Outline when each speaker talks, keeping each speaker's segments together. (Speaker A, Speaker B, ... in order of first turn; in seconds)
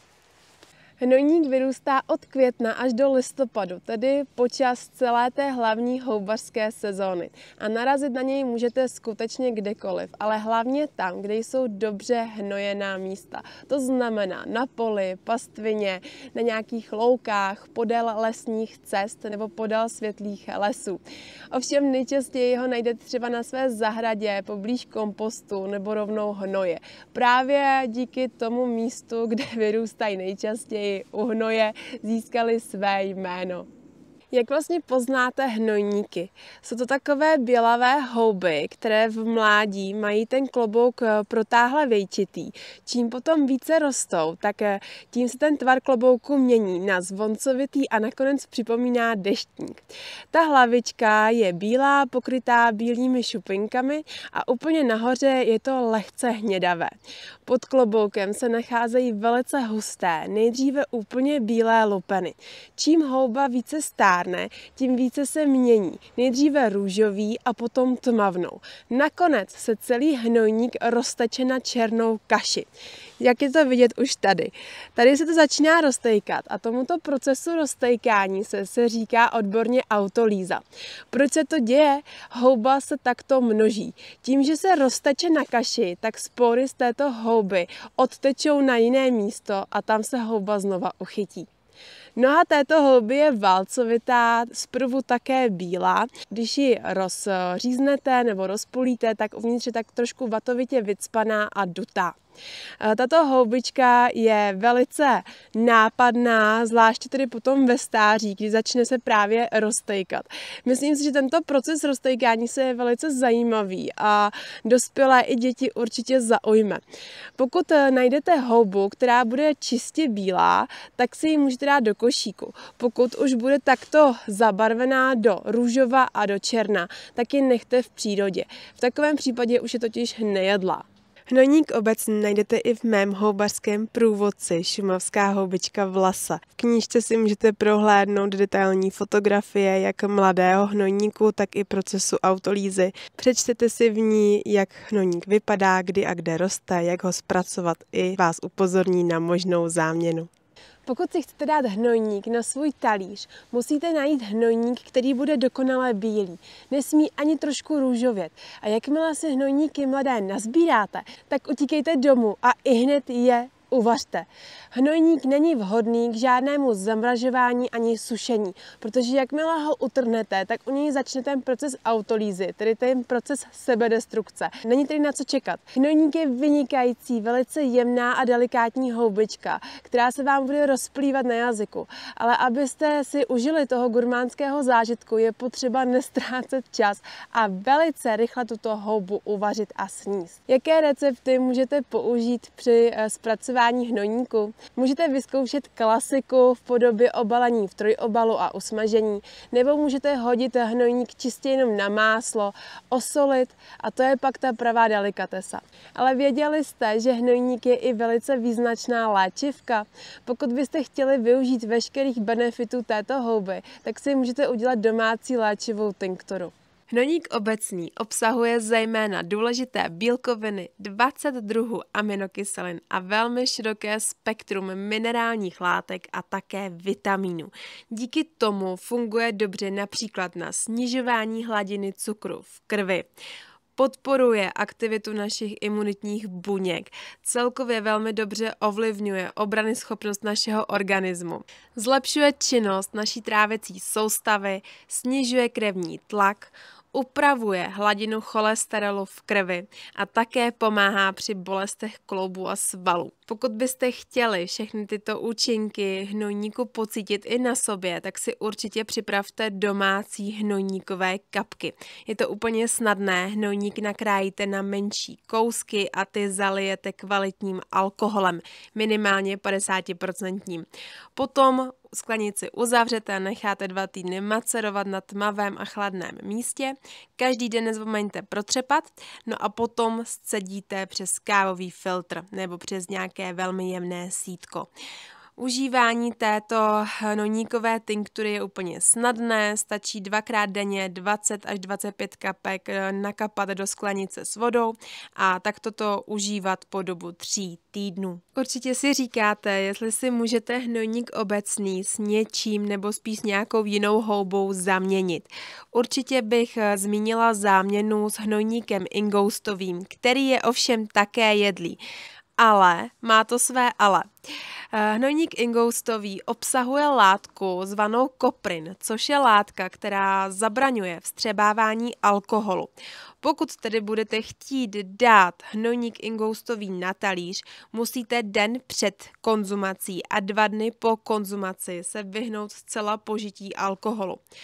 Speaker A: 1.0-21.0, 21.5-33.7, 34.3-56.9, 57.5-72.7, 73.2-91.5, 92.2-102.2, 102.8-116.8, 117.4-150.3, 150.9-233.1, 233.8-284.7, 285.4-311.8, 312.4-314.1, 314.7-322.7, 323.2-334.2